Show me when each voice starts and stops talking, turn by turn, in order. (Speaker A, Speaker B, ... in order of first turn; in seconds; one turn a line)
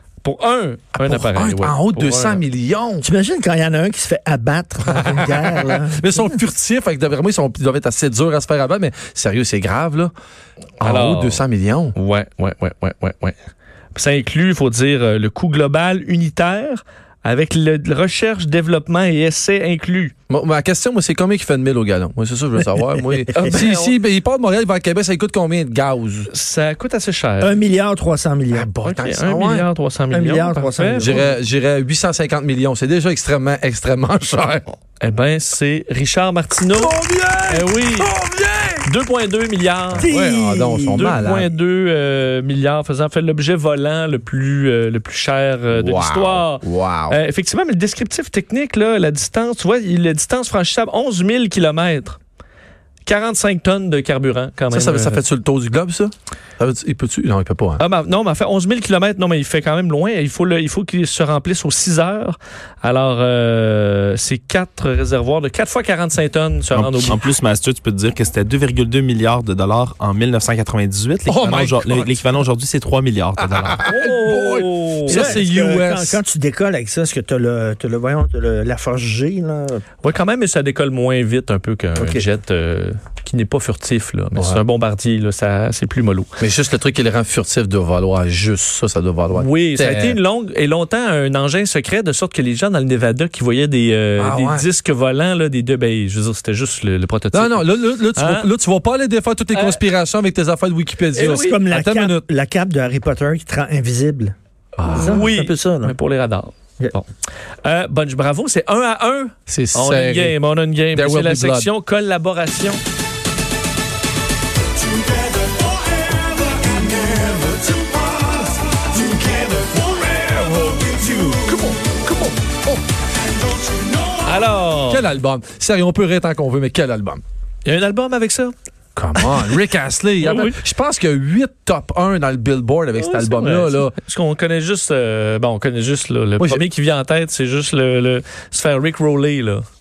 Speaker A: 0.2-2.4
Speaker B: 0.9-3.1
Speaker C: 3.0-6.4
Speaker B: 5.1-10.1
Speaker B: 10.8-11.9
Speaker A: 10.8-11.4
Speaker A: 11.9-13.3
Speaker A: 13.9-20.1
Speaker B: 20.3-26.3
Speaker A: 23.3-24.0
Speaker A: 26.3-27.5
Speaker C: 27.4-28.7
Speaker B: 28.5-29.7
Speaker A: 28.8-31.2
Speaker C: 30.1-31.4
Speaker B: 30.9-34.7
Speaker A: 35.0-37.0
Speaker B: 36.8-38.9
Speaker A: 37.5-38.1
Speaker A: 38.8-40.1
Speaker B: 39.9-41.5
Speaker C: 40.0-41.1
Speaker A: 40.9-52.2
Speaker B: 45.7-47.2
Speaker A: 53.0-55.2
Speaker B: 54.7-57.8
Speaker A: 57.8-67.2
Speaker D: 66.7-73.9
Speaker B: 71.3-72.1
Speaker B: 73.7-76.2
Speaker A: 73.8-75.3
Speaker C: 75.0-79.8
Speaker A: 80.0-86.3
Speaker B: 82.0-82.2
Speaker B: 84.3-84.6
Speaker B: 86.4-90.2
Speaker A: 89.3-98.5
Speaker B: 94.2-94.7
Speaker B: 97.3-102.3
Speaker A: 99.5-99.8
Speaker A: 101.1-101.6
Speaker C: 101.2-104.3
Speaker B: 104.8-105.2
Speaker A: 104.9-107.1
Speaker C: 104.9-105.9
Speaker A: 107.6-112.8
Speaker B: 109.5-110.4
Speaker B: 110.9-111.7
Speaker B: 117.3-117.7
Speaker C: 118.9-119.5
Speaker C: 120.2-121.2
Speaker B: 121.3-122.8
Speaker A: 124.2-125.0
Speaker B: 124.9-127.2
Speaker A: 127.6-128.5
Speaker B: 128.9-133.9
Speaker A: 130.2-130.6
Speaker A: 132.9-139.6
Speaker B: 136.4-136.6